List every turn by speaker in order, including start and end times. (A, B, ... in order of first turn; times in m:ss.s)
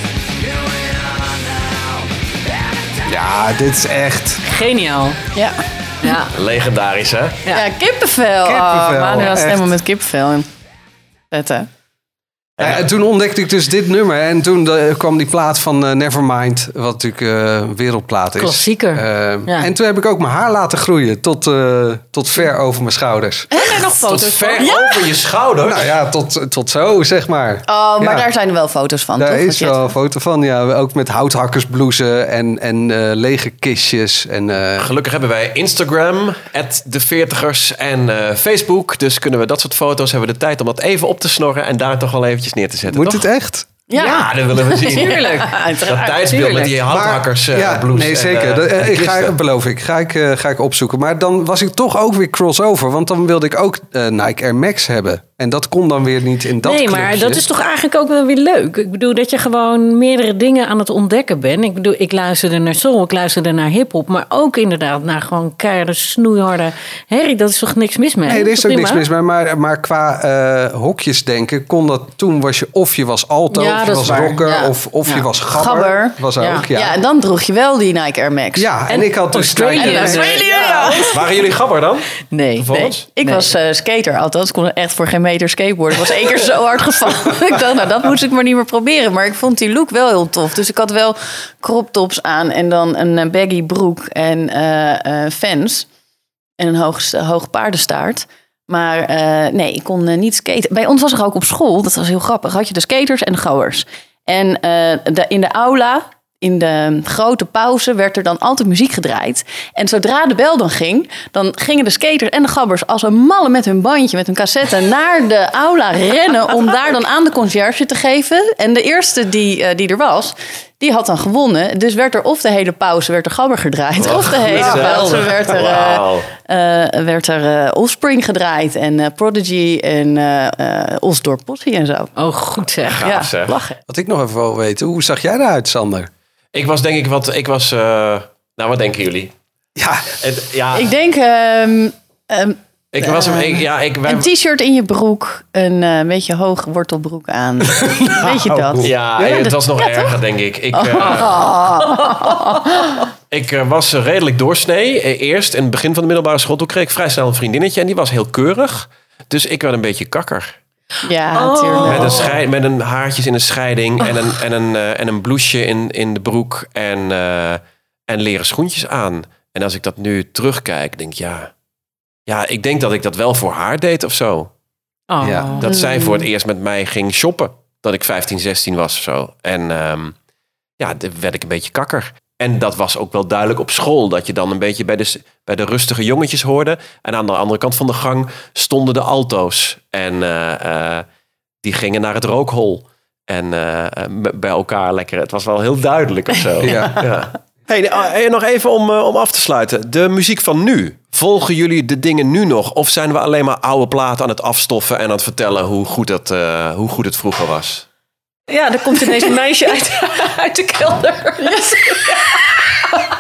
0:03.1-0:04.4 A
0:04.4-0:05.2 B
0:06.0-0:06.3 B
0:06.3-0:07.4 C
0:07.5-0:10.5 D
0:08.4-0:09.8 A
0:11.3-0:11.7 D
0:12.6-0:12.9 C
0:12.6-0:23.5 A
0:18.4-0:19.7 B
0:23.5-0:24.1 D
0:23.6-0:24.7 B
0:24.0-0:25.9 C
0:24.6-0:25.1 D
0:25.6-0:28.3 A
0:27.7-0:29.9 D
0:29.2-0:34.9 A
0:34.8-0:43.2 C
0:42.9-0:43.7 A
0:43.9-0:46.2 D
0:44.0-0:46.8 B
0:44.0-0:45.2 C
0:45.8-0:49.4 C
0:46.9-0:57.4 A
0:56.6-1:09.0 B
1:08.2-1:17.0 A
1:13.5-1:15.3 B
1:15.5-1:18.7 D
1:18.6-1:20.5 A
1:18.9-1:21.2 B
1:19.8-1:21.2 D
1:21.0-1:23.0 C
1:22.3-1:23.5 B
1:22.7-1:35.9 D
1:36.6-2:12.1 D
2:04.0-2:06.3 C
2:04.5-2:04.9 A
2:12.2-2:13.1 B
2:12.8-2:13.6 C
2:13.0-2:13.8 D
2:13.9-2:16.1 A
2:16.5-2:19.4 C
2:19.8-2:20.1 A
2:20.2-2:20.9 C
2:20.7-2:30.2 D
2:22.9-2:24.3 C
2:28.0-2:29.4 A
2:28.8-2:31.4 C
2:30.7-2:33.1 D
2:33.3-2:40.6 C
2:41.0-2:42.2 D
2:41.3-2:42.4 B
2:41.8-2:51.5 C
2:52.3-2:54.5 C
2:55.1-2:55.7 B
2:55.2-2:55.5 A
2:55.6-3:00.2 C
2:55.6-2:56.3 D
3:00.8-3:11.1 C
3:11.6-3:27.8 C
3:16.6-3:17.0 A
3:28.5-3:32.4 B
3:29.0-3:29.3 D
3:31.4-3:32.4 D